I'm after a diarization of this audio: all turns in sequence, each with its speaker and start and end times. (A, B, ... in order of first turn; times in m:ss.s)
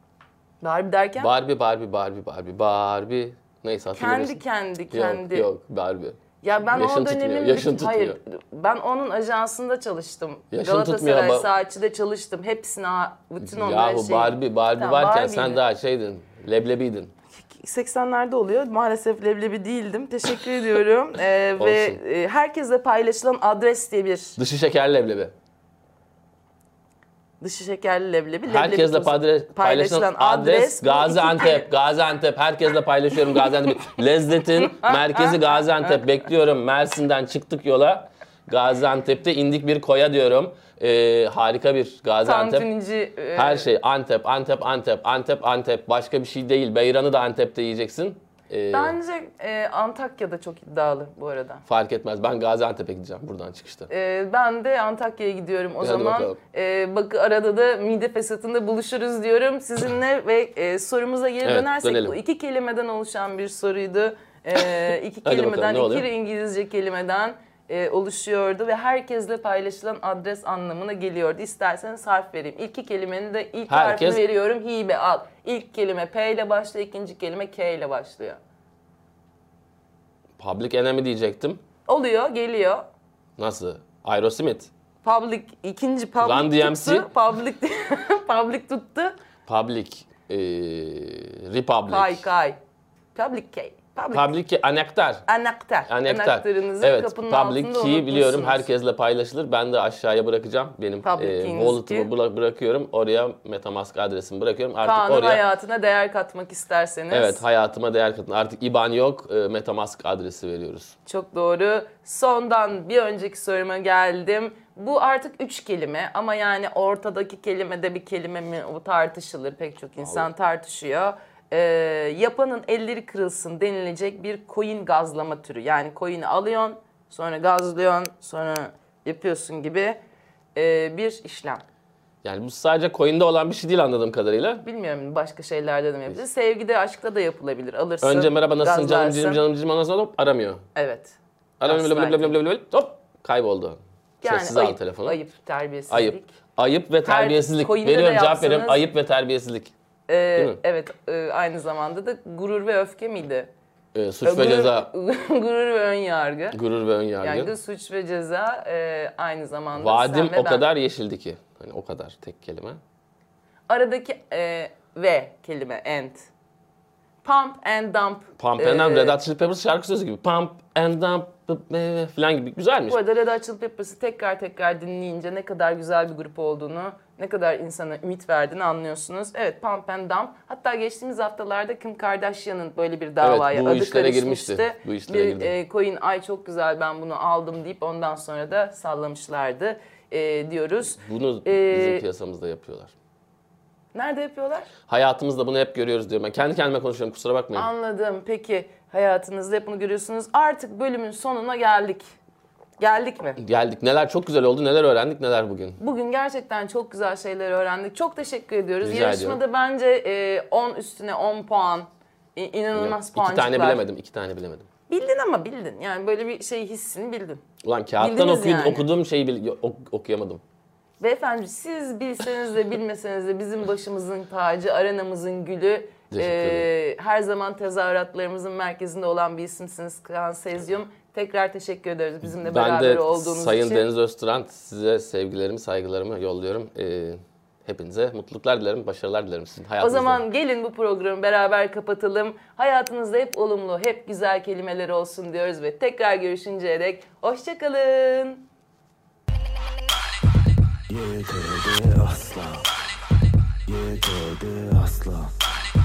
0:00.6-0:01.3 A
0:01.2-0:04.4 B
0:03.9-0:05.5 A
0:04.9-0:08.2 B
0:06.4-0:15.6 A
0:10.5-0:11.5 B
0:13.4-0:17.1 B
0:17.3-0:24.4 A
0:21.6-0:22.0 B
0:24.4-0:25.3 B
0:27.4-0:31.7 A
0:28.4-0:42.7 B
0:34.6-0:36.0 A
0:42.2-0:43.7 A
0:43.3-0:49.0 B
0:48.7-0:51.6 A
0:51.7-0:53.9 B
0:53.9-1:18.4 A
0:55.8-0:56.4 B
1:01.4-1:02.2 B
1:05.2-1:06.1 B
1:13.7-1:14.2 B
1:20.4-1:21.6 B
1:21.8-1:22.8 A
1:23.4-1:24.7 B
1:25.0-1:29.2 A
1:26.2-1:27.1 B
1:29.5-1:32.2 B
1:31.9-1:32.6 A
1:33.1-1:34.3 A
1:34.1-1:35.2 B
1:35.3-1:38.6 A
1:35.9-1:45.4 B
1:41.0-1:42.1 A
1:44.8-1:47.4 A
1:47.1-1:50.9 B
1:51.0-2:10.0 A
2:10.5-2:11.6 A
2:12.2-2:14.6 B
2:14.6-2:19.4 A
2:18.0-2:20.6 B
2:20.7-2:22.4 A
2:21.6-2:25.2 B
2:24.2-2:26.3 A
2:25.9-2:29.7 B
2:27.0-2:28.8 A
2:30.1-2:33.5 A
2:33.9-2:34.9 B
2:34.2-2:36.6 A
2:36.5-2:37.5 B
2:37.2-2:40.6 A
2:39.7-2:42.8 B
2:43.7-2:46.3 A
2:47.2-2:49.2 A
2:48.4-2:53.0 B
2:52.9-3:12.0 A
3:03.2-3:05.5 B
3:10.9-3:12.9 B
3:13.9-3:14.7 A
3:14.9-3:17.7 B
3:17.5-3:22.0 A
3:22.8-3:23.4 A
3:23.4-3:25.8 B
3:25.8-3:33.8 A
3:28.8-3:29.4 B
3:32.7-3:34.7 B
3:34.9-3:37.4 A
3:37.6-3:40.4 B
3:38.0-3:38.8 A
3:41.0-3:53.8 A
3:46.1-3:46.7 B
3:52.2-4:00.2 B
3:59.8-4:08.4 A
4:10.9-4:12.8 C
4:13.7-4:15.5 C